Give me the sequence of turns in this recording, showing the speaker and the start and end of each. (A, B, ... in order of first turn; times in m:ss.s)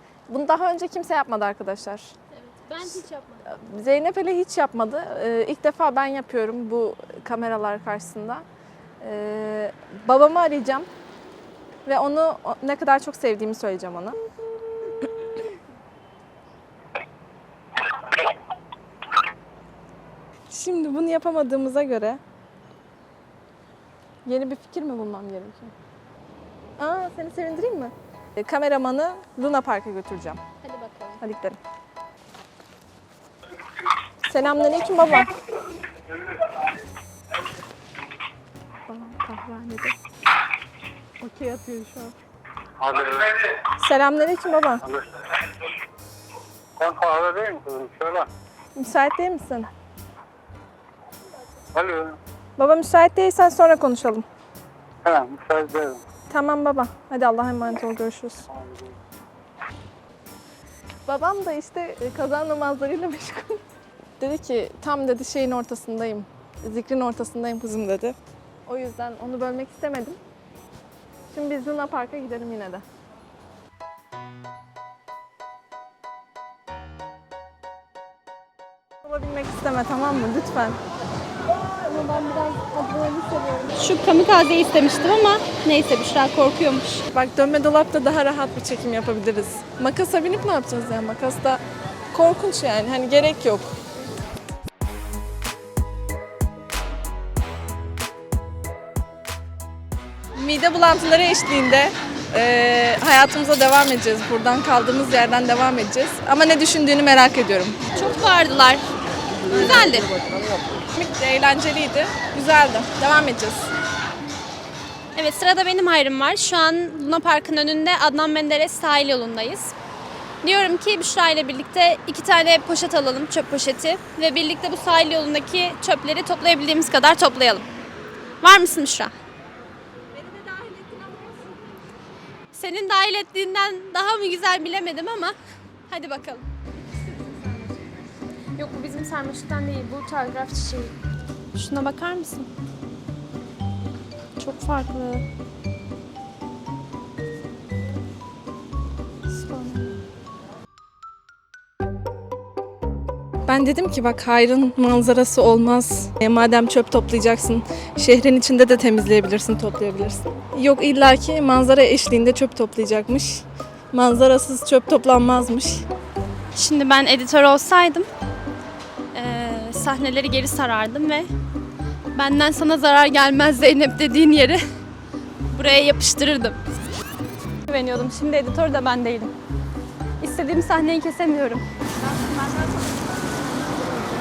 0:00.3-0:02.2 A
0:02.5-0:03.5 B
0:02.9-0:08.4 A
0:09.0-0:10.9 A
0:11.8-0:14.2 A
0:20.5-0:22.2 A
0:24.2-0:25.7 A
0:26.8-0:30.4 A
0:30.6-0:31.2 B
0:31.2-0:31.6 A
0:34.2-0:35.3 A
0:38.9-0:40.0 A
0:41.2-0:42.1 A
0:42.8-0:43.6 C
0:43.8-0:44.8 A
0:44.9-0:45.6 C
0:46.8-0:48.3 C
0:48.8-0:49.7 A
0:51.7-0:52.2 C
0:52.6-0:54.2 A
0:55.0-0:56.0 C
0:56.3-0:58.5 A
0:58.5-0:59.0 C
1:01.1-1:03.6 A
1:04.2-1:10.2 A
1:11.3-1:12.8 A
1:19.0-1:20.8 A
1:21.8-1:27.0 B
1:27.1-1:31.6 A
1:32.1-1:33.7 A
1:40.4-1:47.8 A
1:47.9-1:48.8 B
1:49.5-1:50.0 A
1:49.5-1:50.1 B
1:50.9-1:53.7 A
1:55.2-1:59.7 B
2:00.4-2:07.7 B
2:08.4-2:09.1 B
2:10.2-2:11.4 A
2:12.5-2:15.4 B
2:15.9-2:16.5 B
2:18.6-2:21.0 B
2:21.5-2:22.5 B
2:24.4-2:25.2 B
2:29.3-2:30.0 B
2:33.5-2:45.8 A
2:46.6-2:48.1 B
2:49.1-2:51.3 B
2:52.1-2:54.6 B
2:55.5-2:56.6 B
2:57.7-2:59.3 B
3:00.2-3:02.7 B